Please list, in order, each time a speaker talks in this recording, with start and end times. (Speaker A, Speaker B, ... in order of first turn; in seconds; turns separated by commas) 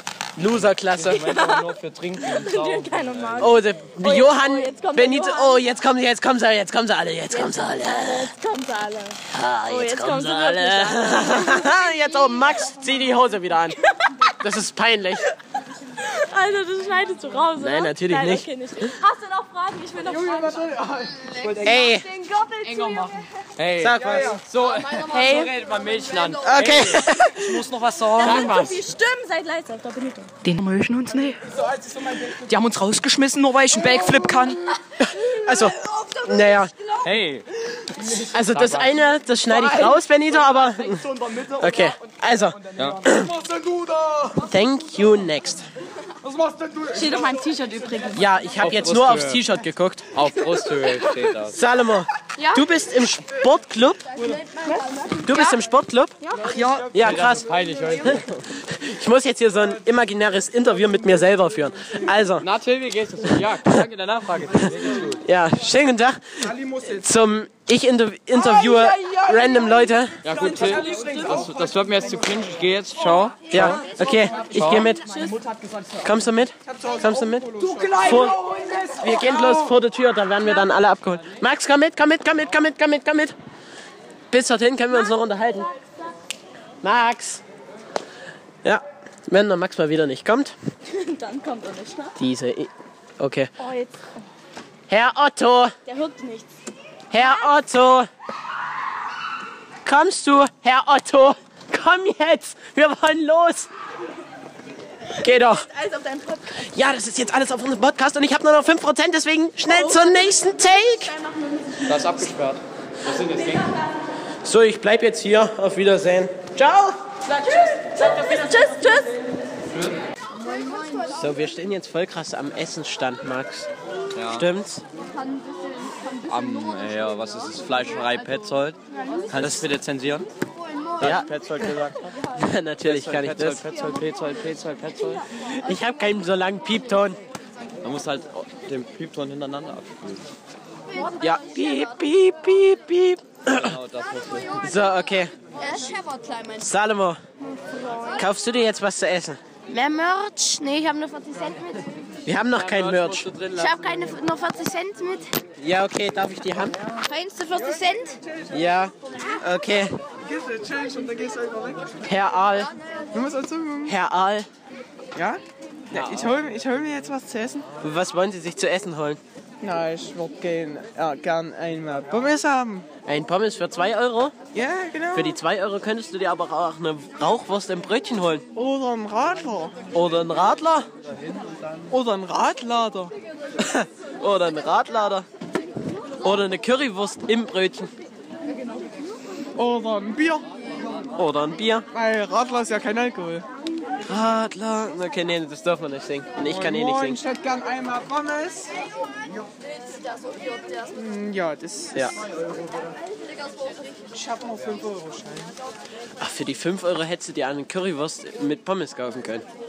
Speaker A: 0.4-1.3, Speaker B: 0.6-3.6, Speaker C: 1.1-1.7, Speaker C: 2.2-5.6, Speaker A: 3.4-8.3, Speaker C: 7.3-12.6, Speaker A: 9.3-13.8, Speaker C: 13.9-14.3, Speaker A: 14.4-15.2, Speaker C: 15.9-20.8, Speaker A: 17.6-18.5, Speaker D: 20.0-21.6, Speaker B: 21.4-21.7, Speaker A: 21.6-22.1, Speaker C: 21.7-23.2, Speaker B: 23.6-28.7, Speaker A: 23.8-24.3, Speaker D: 24.0-24.4, Speaker C: 25.1-25.5, Speaker A: 26.4-27.6, Speaker D: 26.6-26.9, Speaker C: 28.2-30.3, Speaker E: 28.3-28.7, Speaker E: 30.4-31.4, Speaker D: 31.5-32.5, Speaker E: 32.4-34.6, Speaker A: 35.0-36.7, Speaker C: 35.6-36.2, Speaker B: 37.0-37.5, Speaker D: 38.0-38.3, Speaker A: 38.3-43.3, Speaker B: 38.5-38.9, Speaker D: 40.5-44.5, Speaker B: 42.8-43.0, Speaker A: 44.4-45.6, Speaker D: 46.2-47.4, Speaker C: 46.9-48.3, Speaker A: 48.1-50.1, Speaker B: 48.6-49.4, Speaker B: 50.1-51.6, Speaker A: 51.5-54.1, Speaker C: 54.2-55.5, Speaker A: 55.2-56.2, Speaker D: 56.4-58.1, Speaker B: 56.4-58.3, Speaker A: 56.9-57.5, Speaker A: 58.0-62.5, Speaker B: 62.4-65.2, Speaker A: 65.2-70.2, Speaker D: 66.4-67.0, Speaker D: 68.3-72.3, Speaker B: 70.2-73.9, Speaker C: 70.8-71.2, Speaker A: 73.5-75.1, Speaker D: 73.9-76.0, Speaker B: 74.5-74.9, Speaker C: 74.8-75.4, Speaker A: 76.0-78.4, Speaker D: 76.6-79.7, Speaker C: 78.3-78.8, Speaker A: 79.0-83.3, Speaker A: 84.3-85.7, Speaker A: 86.8-87.4, Speaker A: 88.6-90.5, Speaker C: 90.9-92.2, Speaker A: 92.2-93.5, Speaker C: 93.6-94.2, Speaker A: 94.9-95.7, Speaker C: 95.8-96.5, Speaker A: 97.1-98.1, Speaker C: 97.2-97.5, Speaker A: 99.8-103.7, Speaker C: 105.1-106.7, Speaker A: 105.2-105.7, Speaker A: 106.7-111.1, Speaker C: 109.7-111.9, Speaker B: 111.8-113.7, Speaker A: 114.4-119.0, Speaker C: 117.3-119.1, Speaker B: 119.7-120.0, Speaker F: 120.4-121.2, Speaker A: 121.1-123.7, Speaker B: 124.1-124.5, Speaker A: 124.3-124.8, Speaker B: 126.2-128.8, Speaker B: 129.3-130.3, Speaker A: 129.3-129.6, Speaker B: 131.0-132.1, Speaker A: 131.0-131.3, Speaker A: 132.3-133.6, Speaker B: 132.8-135.2, Speaker A: 135.5-137.2, Speaker B: 137.8-140.3, Speaker A: 141.2-143.8, Speaker B: 143.5-144.6, Speaker A: 144.6-145.3, Speaker F: 145.6-146.6, Speaker A: 146.6-147.2, Speaker F: 147.8-148.2, Speaker A: 148.1-149.4, Speaker F: 149.7-151.9, Speaker A: 152.2-153.3, Speaker B: 152.5-154.1, Speaker F: 153.5-155.3, Speaker A: 155.6-156.8, Speaker F: 157.0-158.2, Speaker A: 158.5-160.0, Speaker D: 160.2-162.0, Speaker A: 162.0-162.7, Speaker D: 163.1-163.9, Speaker A: 163.9-164.5, Speaker D: 165.1-167.7, Speaker A: 167.8-169.2, Speaker D: 169.6-172.9, Speaker A: 173.1-174.4, Speaker D: 174.5-175.3, Speaker A: 175.1-178.4, Speaker D: 178.5-179.8, Speaker A: 179.9-180.9, Speaker D: 181.9-183.1, Speaker A: 183.6-185.2, Speaker A: 186.2-187.9, Speaker D: 189.6-190.5, Speaker A: 191.2-191.8, Speaker D: 191.9-193.4, Speaker A: 194.1-197.2, Speaker D: 196.4-198.7, Speaker D: 200.9-202.8, Speaker D: 204.1-205.5, Speaker A: 206.2-209.4